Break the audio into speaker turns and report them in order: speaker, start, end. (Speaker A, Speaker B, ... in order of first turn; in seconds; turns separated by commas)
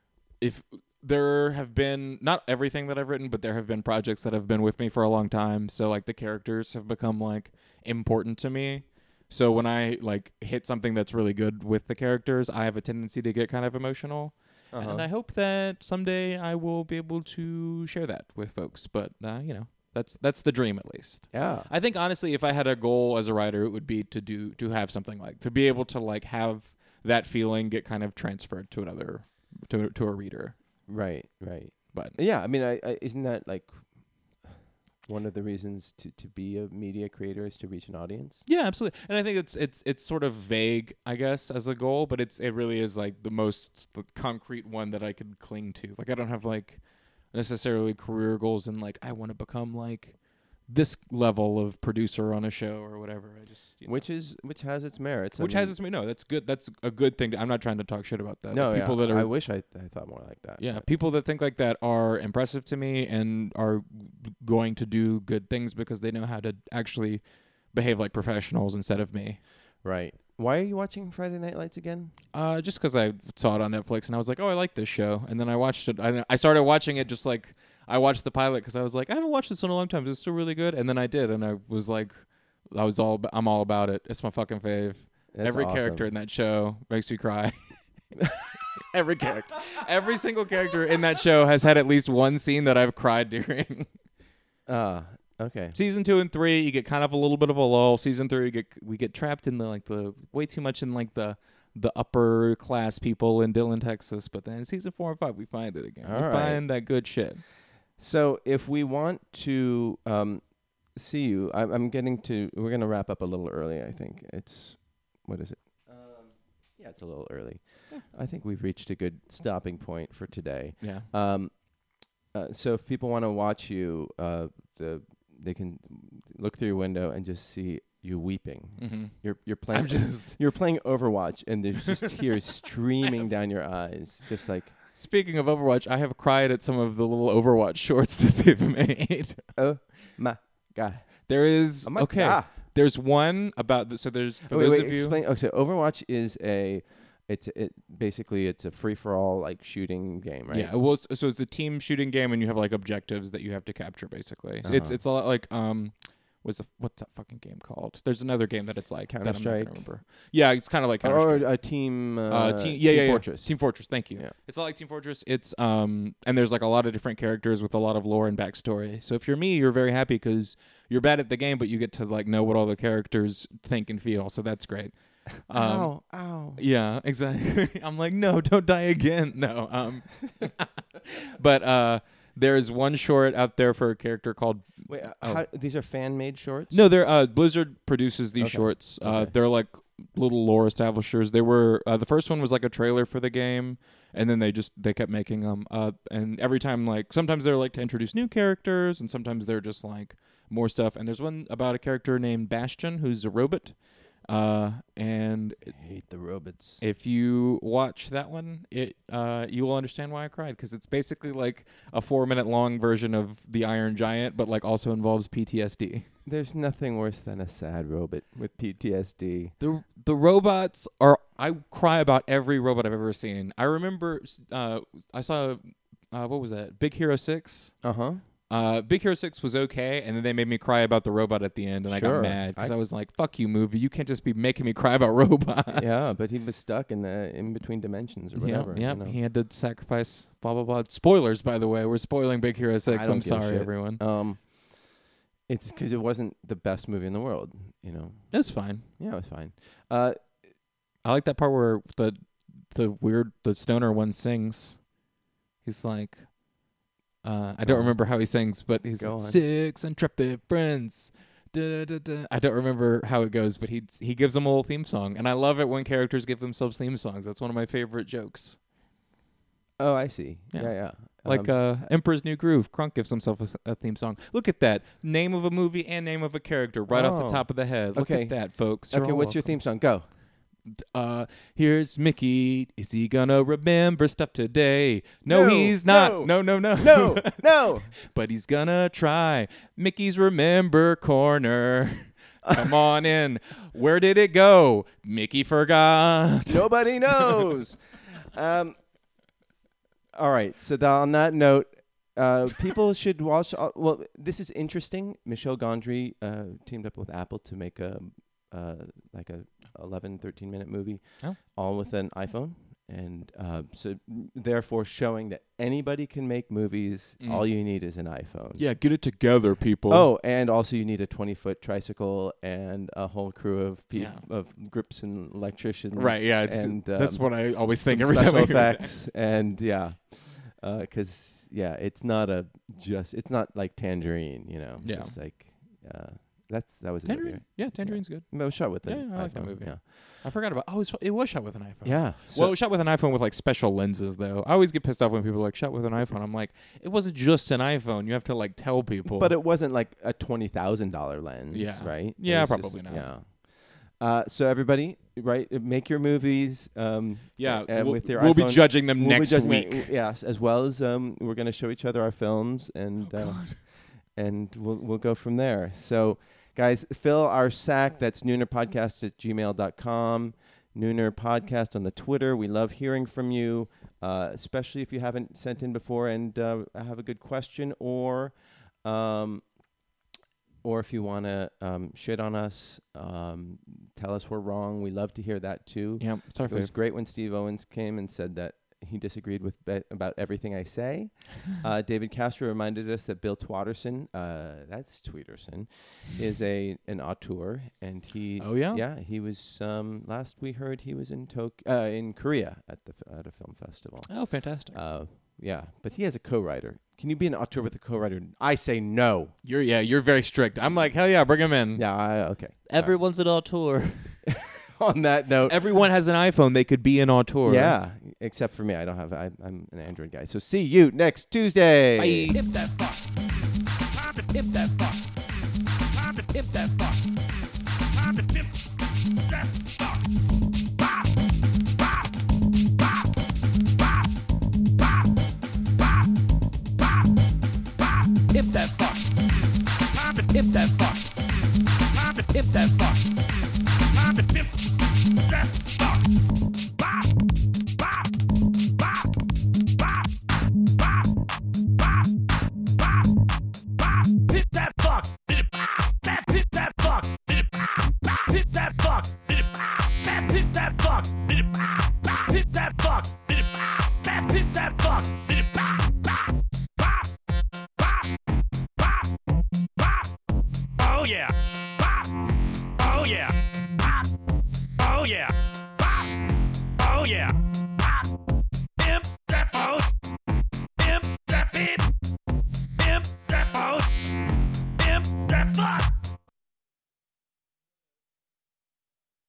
Speaker A: 0.4-30.6, Speaker B: 14.7-15.1, Speaker B: 21.3-21.7, Speaker B: 30.9-33.9, Speaker A: 31.9-32.2, Speaker B: 34.4-38.4, Speaker A: 38.4-54.0, Speaker B: 53.9-55.8, Speaker A: 55.4-59.3, Speaker B: 58.5-60.9, Speaker A: 60.6-69.4, Speaker B: 69.8-72.1, Speaker A: 72.3-87.8, Speaker B: 85.3-86.1, Speaker A: 88.9-93.9, Speaker B: 94.7-95.8, Speaker A: 95.7-107.4, Speaker B: 106.0-106.7, Speaker B: 108.0-134.8, Speaker A: 120.8-121.1, Speaker A: 128.8-130.4, Speaker A: 134.9-139.4, Speaker B: 139.6-141.3, Speaker A: 141.3-145.2, Speaker B: 141.8-142.5, Speaker B: 144.5-150.7, Speaker A: 150.5-161.6, Speaker B: 154.6-155.0, Speaker B: 159.1-159.9, Speaker B: 161.0-164.3, Speaker A: 162.3-176.0, Speaker B: 175.5-176.6, Speaker A: 176.6-185.4, Speaker B: 184.9-186.8, Speaker A: 186.7-205.7, Speaker B: 188.4-189.3, Speaker B: 205.7-206.8, Speaker A: 206.8-216.1, Speaker B: 216.3-219.5, Speaker A: 219.6-227.8, Speaker B: 227.8-228.2, Speaker A: 228.5-236.1, Speaker B: 231.9-232.7, Speaker B: 235.7-239.2, Speaker A: 238.4-244.0, Speaker B: 242.9-245.0, Speaker B: 245.5-250.3, Speaker A: 248.3-248.9, Speaker A: 251.0-254.8, Speaker A: 255.6-256.3, Speaker A: 257.2-268.6, Speaker B: 257.6-258.0, Speaker B: 259.0-259.4, Speaker B: 269.8-271.5, Speaker A: 270.5-279.5, Speaker B: 276.9-280.1, Speaker A: 280.7-297.5, Speaker B: 285.2-287.9, Speaker B: 292.4-292.8, Speaker B: 296.5-298.8, Speaker B: 300.1-318.7, Speaker A: 317.2-317.5, Speaker A: 318.6-320.1, Speaker B: 319.9-339.9, Speaker A: 323.9-324.2, Speaker A: 325.9-328.9, Speaker A: 334.8-335.1, Speaker A: 337.1-349.3, Speaker B: 341.8-342.6, Speaker B: 349.1-379.4, Speaker A: 351.5-353.1, Speaker A: 357.4-359.9, Speaker A: 363.1-363.6, Speaker B: 380.6-409.4, Speaker A: 386.0-386.7, Speaker A: 398.4-398.8, Speaker A: 404.1-404.8, Speaker A: 409.4-414.3, Speaker B: 410.7-410.9, Speaker B: 411.7-413.0, Speaker B: 414.3-415.9, Speaker A: 415.4-417.8, Speaker B: 417.4-422.3, Speaker A: 422.0-422.4, Speaker C: 422.3-427.2, Speaker C: 427.8-428.6, Speaker C: 429.3-430.1, Speaker C: 438.2-446.2, Speaker C: 453.8-467.1, Speaker C: 467.8-468.2, Speaker C: 468.8-469.1, Speaker C: 469.8-470.1, Speaker C: 470.8-474.1, Speaker C: 474.8-478.1, Speaker C: 478.8-480.2, Speaker C: 480.8-481.9, Speaker C: 482.8-485.9